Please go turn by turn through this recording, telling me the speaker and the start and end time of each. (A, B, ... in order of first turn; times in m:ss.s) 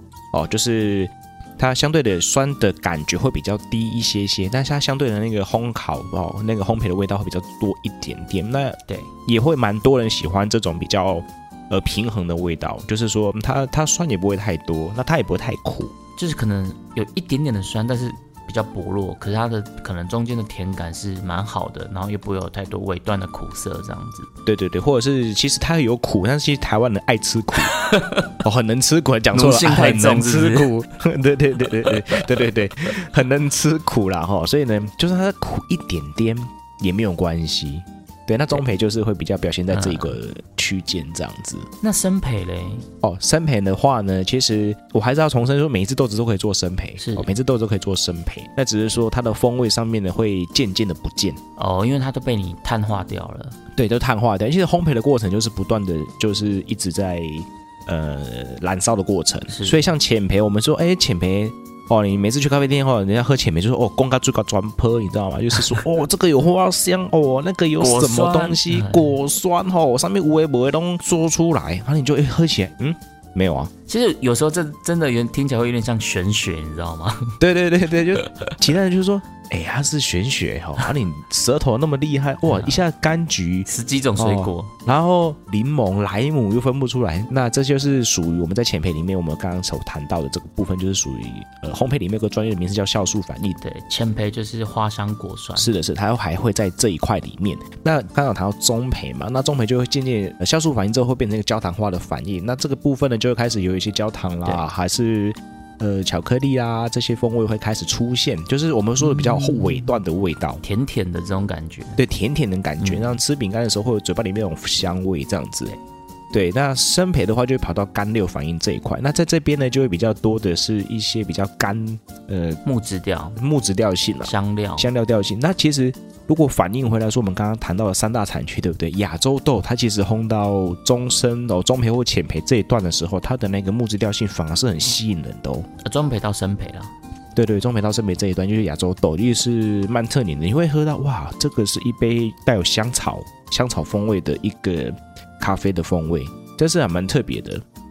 0:00.3-0:15.9 A
0:16.2-0:24.3 B
0:24.4-0:27.7 A
0:27.7-0:28.3 B
0:28.4-0:41.7 A
0:29.3-0:30.7 B
0:31.8-0:32.2 B
0:39.7-0:40.2 B
0:41.8-0:42.9 B
0:43.0-0:51.4 A
0:47.0-0:47.3 B
0:51.6-0:53.6 B
0:53.8-1:13.7 A
0:59.5-0:59.9 B
1:07.8-1:09.2 B
1:13.9-1:17.4 B
1:17.4-1:33.6 A
1:18.2-1:18.5 B
1:22.4-1:22.8 B
1:23.7-1:24.7 B
1:33.6-1:35.7 B
1:35.6-1:50.6 A
1:49.0-1:50.0 B
1:50.6-1:52.0 B
1:52.0-1:55.7 A
1:52.8-1:53.2 B
1:56.3-2:02.6 A
2:02.6-2:03.4 B
2:03.4-2:15.7 A
2:04.2-2:04.9 B
2:15.8-2:16.9 B
2:17.3-2:27.6 A